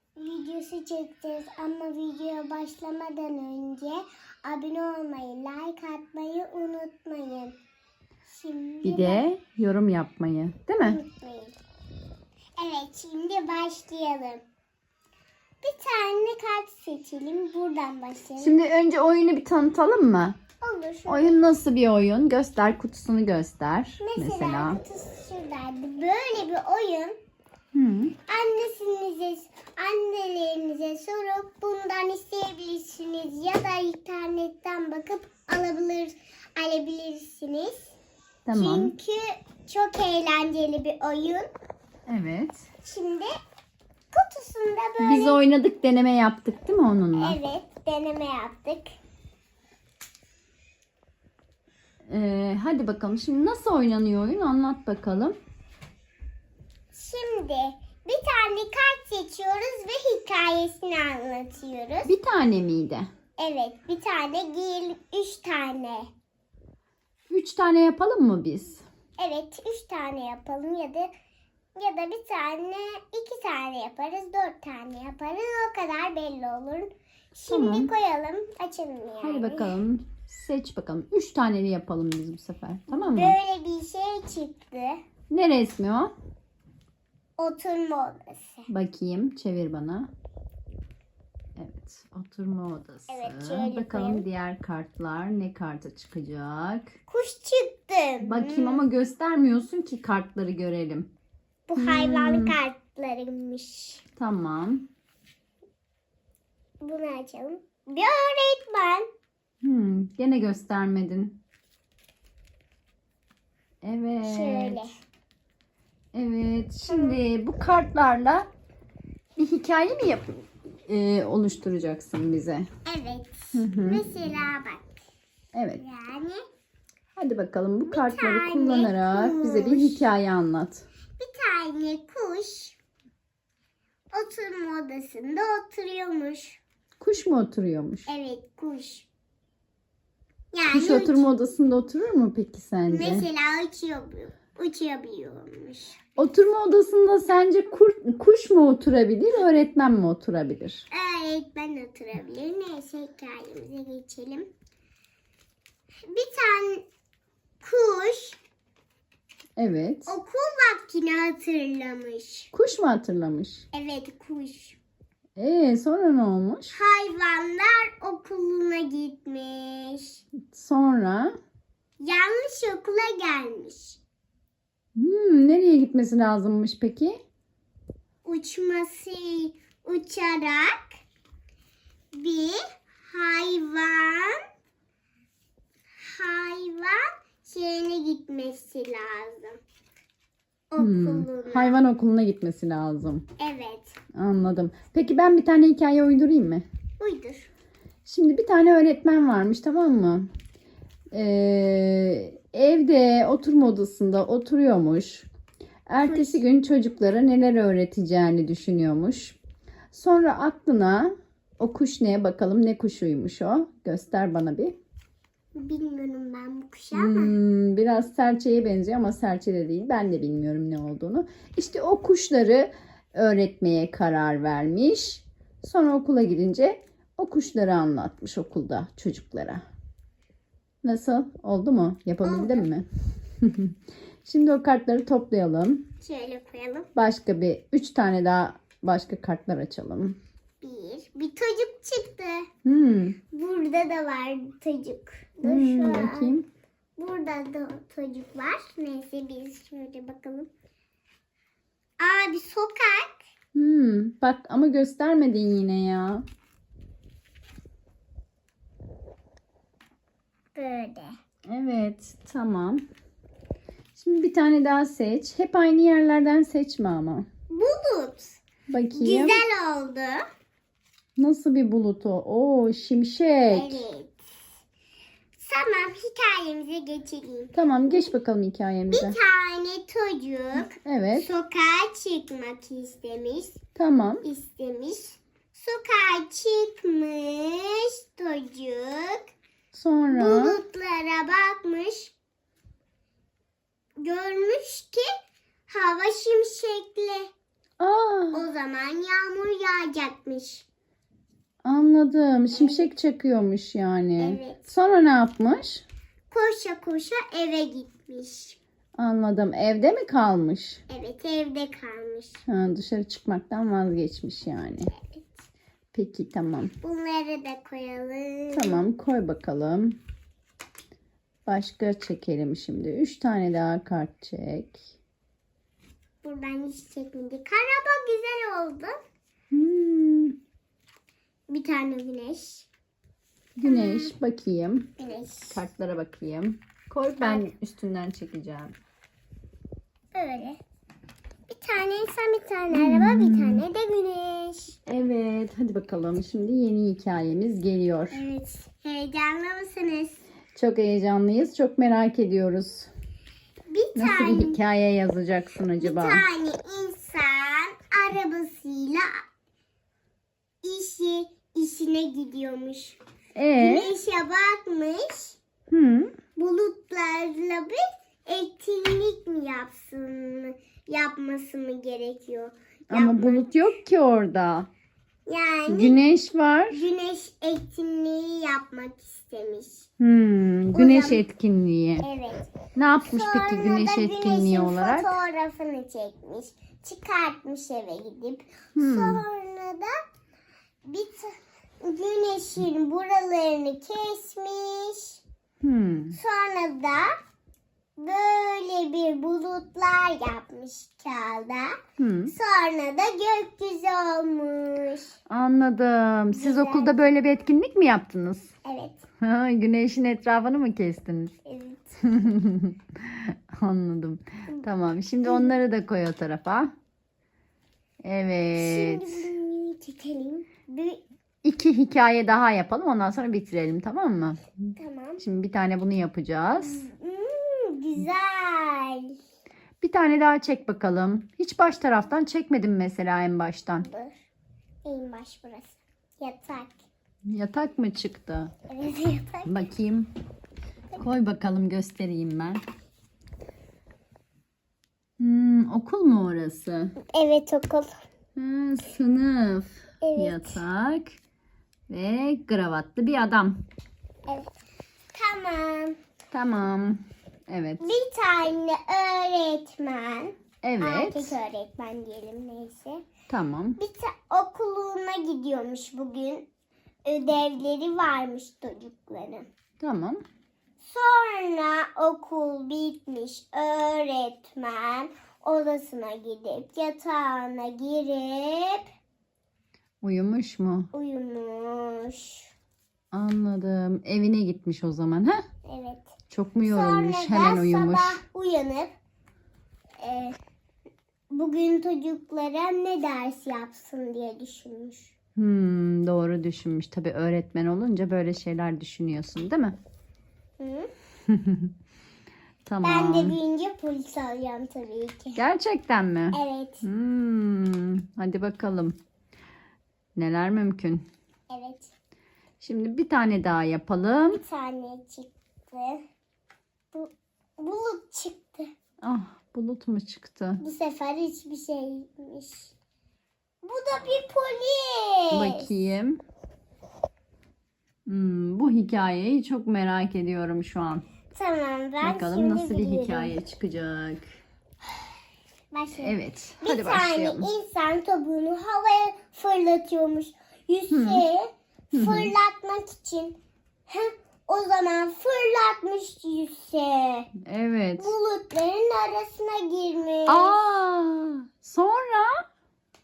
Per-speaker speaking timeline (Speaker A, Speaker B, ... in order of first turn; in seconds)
Speaker A: 0.2-7.5, 8.2-9.2, 10.8-11.5, 12.6-14.4, 15.6-18.6, 20.6-21.4, 24.0-27.1, 28.3-38.0, 38.5-41.5, 42.8-43.3, 44.1-45.4, 47.1-48.9, 56.9-62.1, 63.4-66.1, 69.2-71.1, 71.7-79.7, 82.9-85.0, 87.4-88.7, 93.1-94.2, 97.1-98.8, 101.7-104.0, 106.8-109.1, 114.2-114.9, 116.9-117.2, 122.8-125.0, 125.8-126.4, 127.8-130.1, 131.2-132.8, 134.1-136.6, 138.1-139.1, 140.5-141.2, 142.9-146.1, 150.9-154.5, 156.0-156.8, 157.6-158.4, 160.1-162.5, 163.7-164.8, 166.7-170.2, 172.0-174.0, 178.2-180.9, 182.1-184.4, 186.0-189.6, 190.7-191.8, 193.4-193.9, 197.0-197.5, 206.0-206.4, 215.5-217.3, 232.2-232.7, 236.0-236.9, 240.6-242.5, 243.3-246.3, 247.0-250.5, 252.0-253.2, 260.6-261.2, 267.5-268.4, 268.9-270.2, 273.5-274.2, 275.3-278.1, 278.9-283.6, 284.2-289.3, 290.1-292.1, 294.0-295.1, 295.7-297.3, 298.3-300.6, 302.5-302.9, 304.2-304.7, 306.3-308.6, 310.9-312.4, 314.9-315.4, 316.8-318.8, 326.2-329.0, 331.5-332.7, 333.6-334.1, 335.0-335.6, 337.2-337.5, 340.1-340.6, 341.5-344.8, 348.1-350.2, 353.7-354.6, 355.8-359.1, 360.6-363.0, 363.6-365.4, 366.4-373.6, 375.2-376.0, 376.7-379.9, 380.7-381.2, 382.0-382.6, 383.1-389.9, 390.9-395.2, 396.1-397.1, 398.0-401.8, 402.3-405.1, 406.3-407.0, 408.6-409.1, 411.4-412.0, 415.2-415.5, 418.6-421.0, 424.8-425.2, 426.6-429.1, 433.8-434.1, 434.8-436.8, 438.7-439.5, 447.1-447.9, 450.0-450.6, 454.3-454.6, 455.1-455.9, 457.8-463.0, 463.8-466.4, 467.0-469.4, 470.8-478.9, 480.9-482.5, 485.6-486.1, 486.6-488.9, 490.0-490.4, 491.3-495.1, 500.6-500.9, 502.8-505.4, 506.3-506.8, 511.5-511.9, 514.3-516.0, 516.9-518.7, 520.6-522.7, 523.6-525.7, 531.3-533.3, 535.7-547.3, 548.0-550.6
Speaker B: 8.8-11.0, 18.4-20.4, 21.1-24.8, 27.7-28.1, 38.5-38.9, 42.1-42.7, 45.0-47.4, 52.1-55.4, 62.0-63.1, 67.3-68.8, 77.5-77.9, 79.2-83.4, 85.3-86.1, 88.7-90.1, 91.5-96.9, 98.2-101.1, 101.8-102.5, 104.2-104.9, 109.6-111.4, 113.8-114.8, 116.1-118.5, 119.4-122.7, 123.5-124.0, 125.5-125.8, 127.1-130.8, 137.0-138.1, 140.7-143.3, 146.2-150.8, 159.6-160.2, 162.5-163.6, 165.4-166.8, 170.5-171.3, 174.9-177.2, 190.8-193.2, 194.1-196.6, 198.1-200.3, 201.1-205.3, 205.9-209.3, 209.9-214.8, 216.9-229.6, 230.8-232.8, 233.4-233.7, 234.2-235.8, 236.9-240.2, 242.6-243.2, 245.4-246.4, 253.5-256.2, 261.5-262.8, 263.9-267.2, 268.7-269.4, 271.2-273.8, 277.5-279.2, 280.6-281.3, 283.8-284.2, 289.7-290.6, 297.8-298.4, 301.6-305.8, 309.0-310.8, 312.5-314.9, 315.9-316.7, 318.5-320.0, 321.4-324.9, 329.5-330.3, 333.6-334.9, 335.5-338.7, 342.7-343.6, 344.9-348.2, 350.5-352.9, 353.9-356.2, 363.4-363.9, 365.7-366.1, 372.9-374.7, 375.7-376.8, 380.0-382.1, 382.7-385.1, 388.8-389.2, 395.6-396.2, 402.0-402.3, 405.3-408.5, 409.2-411.3, 412.0-416.7, 418.0-419.3, 421.4-424.5, 425.2-426.8, 429.8-433.9, 437.3-438.5, 439.4-440.1, 441.0-442.6, 445.2-446.9, 448.4-451.2, 451.9-453.6, 456.3-457.9, 460.6-461.4, 463.3-463.8, 469.8-470.2, 480.0-480.9, 483.1-485.4, 486.3-488.2, 495.4-499.8, 501.3-501.7, 502.6-503.4, 505.4-508.9, 510.1-511.0, 512.6-514.4, 519.0-520.6, 525.3-526.2, 528.0-531.0, 532.0-534.2, 536.0-537.5, 540.9-541.2, 541.9-542.3, 547.4-548.1, 550.3-552.3